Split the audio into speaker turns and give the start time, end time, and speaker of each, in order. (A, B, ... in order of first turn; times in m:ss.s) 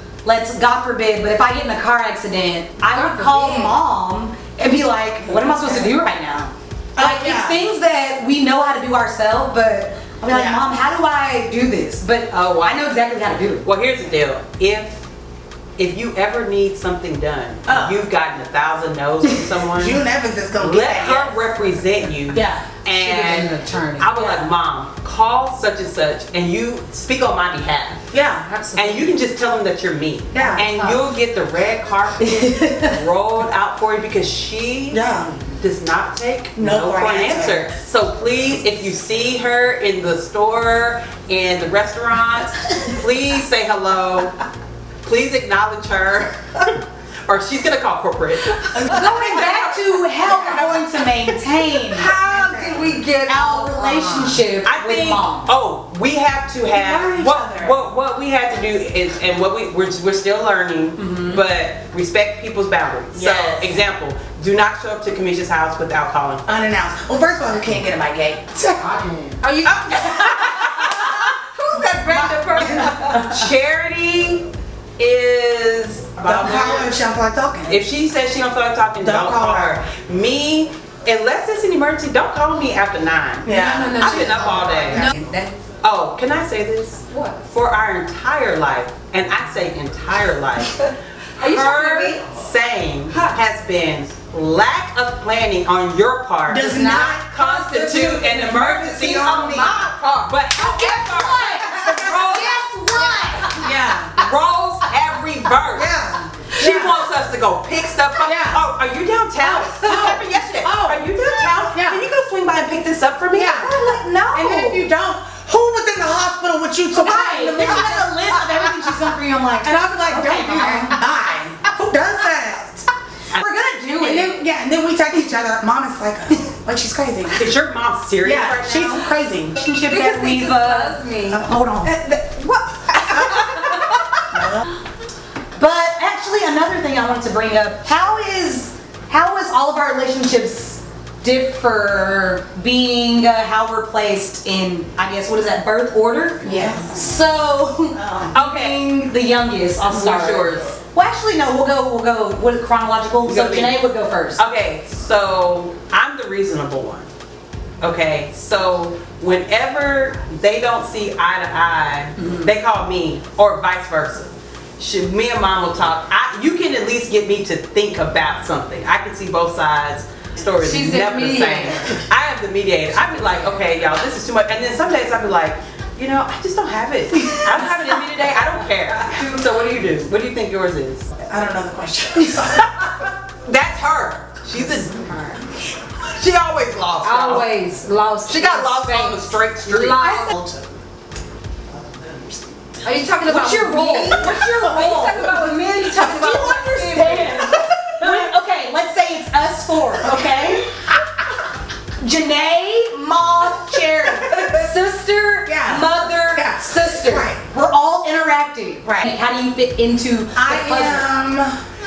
0:00.2-0:13.7 A
0:02.8-0:03.8 B
0:05.6-0:05.9 C
0:07.0-0:07.7 C
0:10.3-0:10.6 C
0:12.3-0:13.0 D
0:13.6-0:15.0 D
0:15.8-0:20.0 D
0:17.7-0:18.0 C
0:19.7-0:21.4 C
0:20.6-0:28.1 D
0:22.3-0:22.7 C
0:22.9-0:24.1 B
0:24.2-0:24.5 C
0:28.1-0:28.5 C
0:28.4-0:29.2 B
0:28.7-0:35.0 D
0:30.3-0:30.7 C
0:30.3-0:31.0 B
0:32.4-0:32.9 A
0:34.9-0:35.4 C
0:35.6-0:44.4 D
0:36.6-0:37.7 C
0:45.0-0:49.8 D
0:48.7-0:49.7 C
0:48.8-0:52.1 A
0:50.2-0:51.4 C
0:50.3-0:50.6 B
0:51.9-0:54.4 B
0:52.1-0:53.0 C
0:53.2-0:55.5 A
0:54.6-1:06.4 D
0:56.7-0:57.8 C
1:01.0-1:01.4 A
1:03.1-1:03.8 C
1:06.5-1:09.0 C
1:08.8-1:13.2 B
1:09.7-1:11.0 D
1:11.8-1:14.4 D
1:12.1-1:13.0 C
1:15.0-1:16.9 D
1:16.2-1:17.8 C
1:17.7-1:25.1 D
1:19.0-1:19.8 C
1:23.4-1:24.1 C
1:23.4-1:25.6 B
1:25.8-1:42.6 D
1:27.1-1:27.5 B
1:31.4-1:32.3 B
1:33.1-1:33.4 B
1:36.5-1:37.3 C
1:36.6-1:40.3 B
1:37.8-1:39.8 C
1:40.6-1:43.6 A
1:41.6-1:42.2 B
1:41.7-1:42.2 C
1:42.9-1:43.7 B
1:43.6-1:44.2 C
1:44.1-1:45.9 D
1:45.7-1:46.9 C
1:46.5-1:53.9 D
1:48.2-1:48.6 C
1:49.4-1:52.0 C
1:53.3-1:53.7 C
1:53.5-1:54.9 A
1:54.3-2:02.9 C
1:57.0-2:01.0 A
2:03.3-2:03.6 D
2:03.3-2:04.4 A
2:04.0-2:07.5 C
2:07.4-2:09.1 D
2:08.2-2:09.6 C
2:09.5-2:11.0 A
2:09.8-2:11.4 B
2:11.3-2:12.1 C
2:12.2-2:12.8 B
2:12.9-2:13.7 C
2:14.3-2:14.6 C
2:15.6-2:34.4 A
2:26.4-2:27.0 C
2:27.9-2:28.3 C
2:28.3-2:28.8 D
2:29.9-2:30.8 D
2:33.2-2:33.8 D
2:34.4-2:37.1 D
2:37.8-3:01.1 D
2:42.2-2:42.5 A
2:50.6-2:51.9 B
3:01.3-3:02.7 C
3:02.8-3:05.0 D
3:04.6-3:05.4 B
3:06.1-3:07.5 D
3:07.0-3:10.3 B
3:08.2-3:10.3 D
3:10.0-3:10.3 A
3:10.3-3:10.7 C
3:12.8-3:17.4 B
3:13.2-3:20.6 A
3:17.4-3:18.1 C
3:20.0-3:20.7 C
3:22.0-3:31.1 A
3:24.1-3:24.4 C
3:25.4-3:27.4 C
3:30.3-3:31.6 C